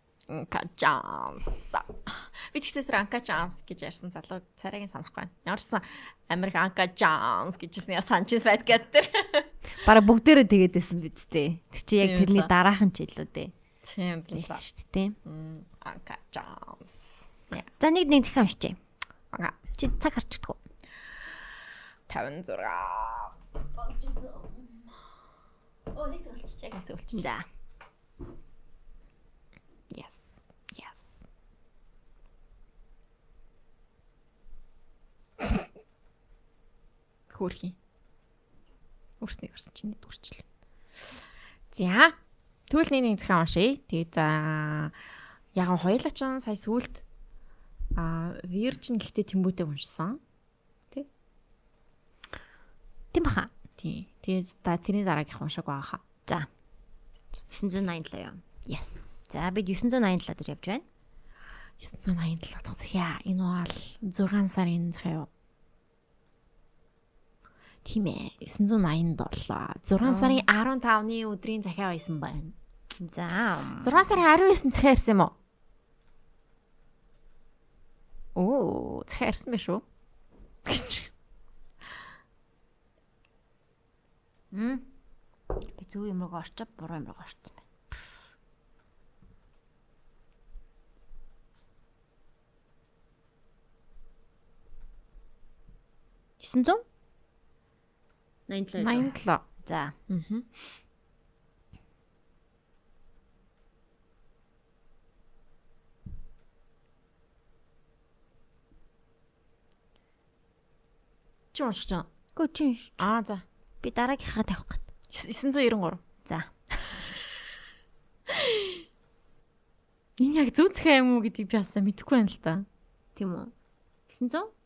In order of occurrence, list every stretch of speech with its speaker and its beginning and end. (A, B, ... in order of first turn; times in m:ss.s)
0:00.3-0:09.5 A
0:09.8-0:13.5 B
0:12.0-0:12.5 A
0:13.8-0:14.6 A
0:14.3-0:15.2 B
0:15.2-0:17.7 A
0:17.8-0:18.8 B
0:19.3-0:19.6 A
0:19.8-0:20.6 B
0:22.1-0:25.1 A
0:25.9-0:27.2 A
0:27.1-0:27.4 B
0:29.9-0:31.2 A
0:37.3-0:37.8 A
0:39.2-0:40.4 A
0:41.7-0:42.2 A
0:42.7-0:44.9 A
0:45.5-0:47.0 A
0:47.9-0:50.2 A
0:53.1-0:53.5 B
0:53.8-0:56.0 A
0:57.5-0:58.4 B
0:58.6-0:59.3 A
0:59.3-1:00.8 B
1:01.8-1:05.3 A
1:07.8-1:12.6 A
1:10.0-1:10.4 B
1:13.0-1:14.2 B
1:13.8-1:15.3 A
1:18.3-1:19.8 A
1:20.6-1:21.1 A
1:24.5-1:24.8 B
1:25.8-1:28.0 B
1:36.4-1:36.8 B
1:38.5-1:39.1 B
1:38.8-1:39.4 A
1:39.6-1:39.9 B
1:40.1-1:40.5 A
1:51.5-1:52.1 A
1:52.4-1:53.1 B
1:53.0-1:53.4 A
1:53.8-1:54.8 B
1:55.1-1:56.0 A
1:58.3-1:58.8 A
2:00.2-2:02.6 A
2:03.2-2:03.5 B
2:04.1-2:04.5 B